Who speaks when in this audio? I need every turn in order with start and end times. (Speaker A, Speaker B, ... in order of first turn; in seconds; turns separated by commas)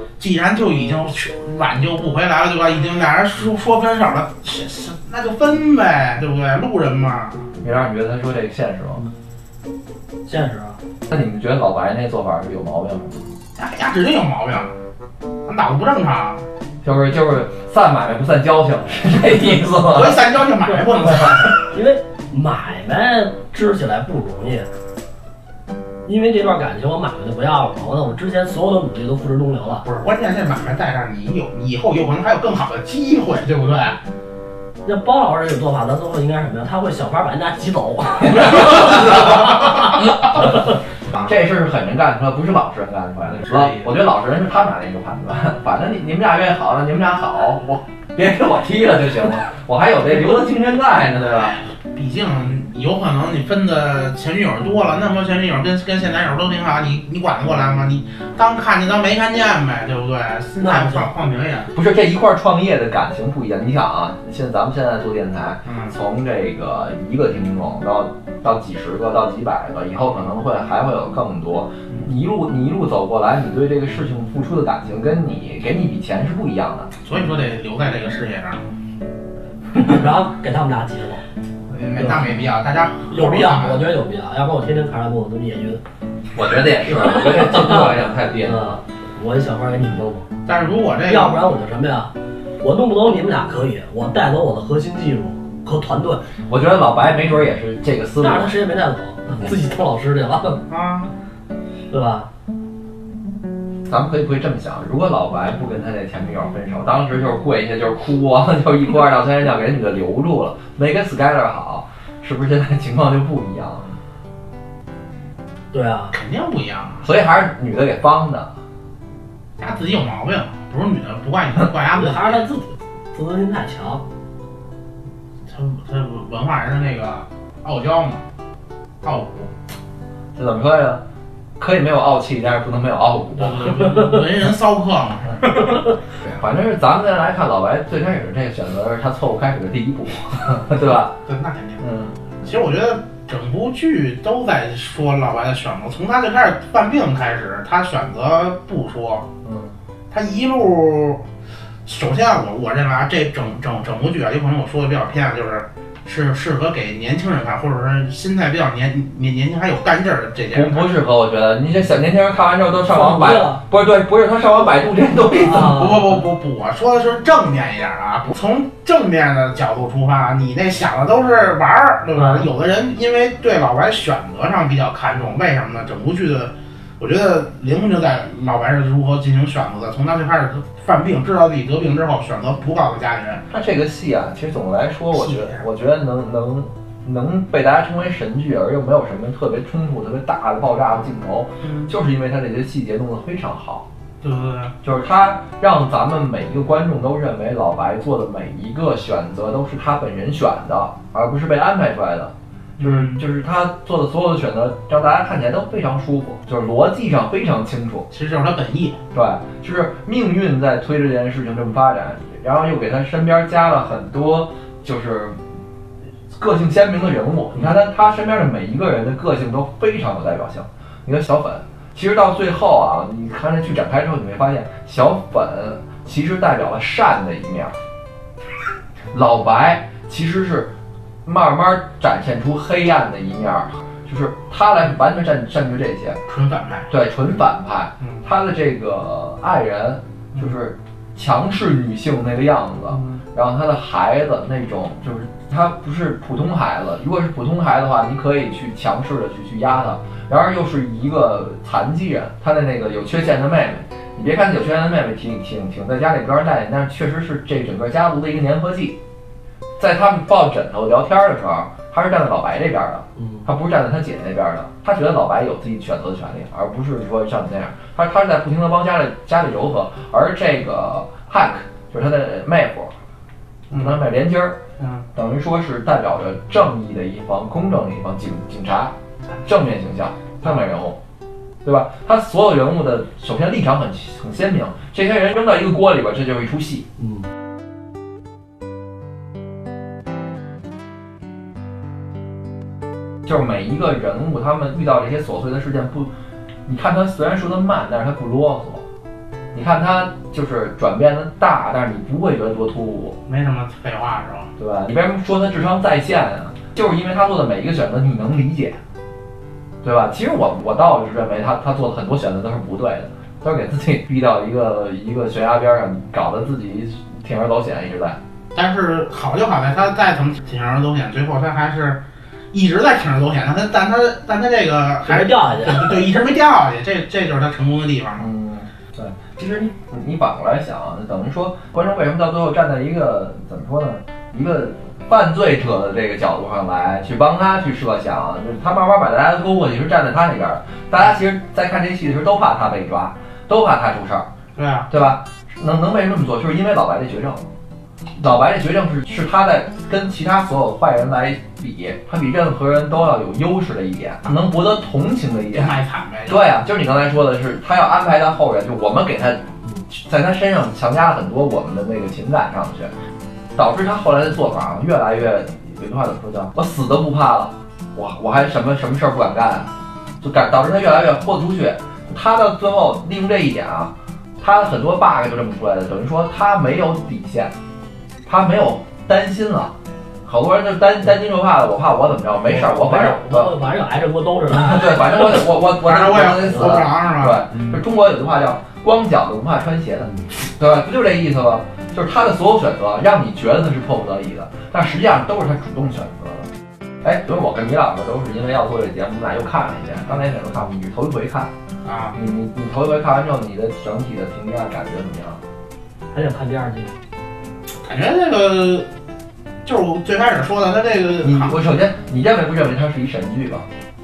Speaker A: 0.2-7.5, Speaker B: 7.6-9.0, Speaker C: 10.3-10.8, Speaker B: 11.1-13.3, Speaker A: 13.6-14.7, Speaker A: 15.4-16.4, Speaker B: 16.8-20.2, Speaker A: 19.9-21.7, Speaker C: 21.7-24.7, Speaker C: 26.1-29.9, Speaker A: 29.8-34.0, Speaker C: 34.8-39.8, Speaker B: 41.1-51.6, Speaker A: 43.3-43.9, Speaker A: 51.3-61.7, Speaker C: 60.6-61.1, Speaker B: 61.7-76.9, Speaker A: 65.7-65.9, Speaker A: 77.0-78.7, Speaker C: 79.7-81.2, Speaker A: 81.7-83.9, Speaker C: 82.0-82.2, Speaker C: 83.1-85.8, Speaker B: 86.3-88.6, Speaker C: 86.9-90.3, Speaker A: 90.5-91.5, Speaker C: 91.1-96.3, Speaker B: 96.5-98.6, Speaker C: 98.2-100.6, Speaker A: 100.7-101.1, Speaker C: 101.9-102.3, Speaker B: 103.9-114.0, Speaker C: 115.7-116.2, Speaker A: 116.1-117.1, Speaker B: 117.0-118.5, Speaker A: 119.6-122.5, Speaker C: 121.9-124.0, Speaker A: 125.5-128.2, Speaker A: 129.0-129.5, Speaker B: 130.4-131.0, Speaker B: 131.6-133.8, Speaker A: 133.4-135.9, Speaker B: 136.3-141.2, Speaker A: 141.3-141.8, Speaker B: 141.8-142.1, Speaker A: 142.4-149.3, Speaker B: 149.4-149.7, Speaker A: 150.1-151.2, Speaker A: 151.9-160.9, Speaker B: 160.5-165.9, Speaker C: 162.9-163.6, Speaker C: 165.3-166.1, Speaker A: 165.6-183.4, Speaker C: 172.2-172.5, Speaker B: 183.5-193.9, Speaker A: 185.1-185.6, Speaker A: 191.6-191.9, Speaker A: 194.2-194.7, Speaker B: 194.8-208.1, Speaker A: 202.8-203.2, Speaker A: 208.1-209.0, Speaker B: 209.1-215.4, Speaker B: 216.3-227.8, Speaker B: 229.1-230.7, Speaker B: 231.2-236.2, Speaker A: 236.3-236.9, Speaker B: 236.9-259.0, Speaker A: 242.9-243.2, Speaker B: 259.8-272.9, Speaker A: 273.7-274.0, Speaker B: 273.7-274.6, Speaker A: 274.8-275.1, Speaker B: 275.1-278.9, Speaker B: 279.4-281.0, Speaker B: 281.6-286.9, Speaker B: 293.2-296.1, Speaker B: 296.7-298.8, Speaker B: 299.5-303.2, Speaker A: 303.3-304.5, Speaker B: 304.6-308.8, Speaker B: 309.8-318.2, Speaker A: 318.5-322.0, Speaker A: 322.5-328.3, Speaker C: 325.0-326.0, Speaker B: 328.2-344.3, Speaker A: 344.6-344.9, Speaker B: 344.9-347.4, Speaker B: 348.2-355.8, Speaker A: 355.5-356.4, Speaker B: 356.3-362.9, Speaker B: 363.6-377.5, Speaker B: 378.2-379.7, Speaker B: 380.2-383.5, Speaker C: 382.5-385.1, Speaker B: 384.5-396.5, Speaker A: 385.8-387.5, Speaker B: 397.0-401.5, Speaker A: 401.8-402.2, Speaker B: 402.1-405.4, Speaker C: 406.1-406.9, Speaker A: 407.8-408.9, Speaker A: 409.6-411.6, Speaker B: 411.2-413.7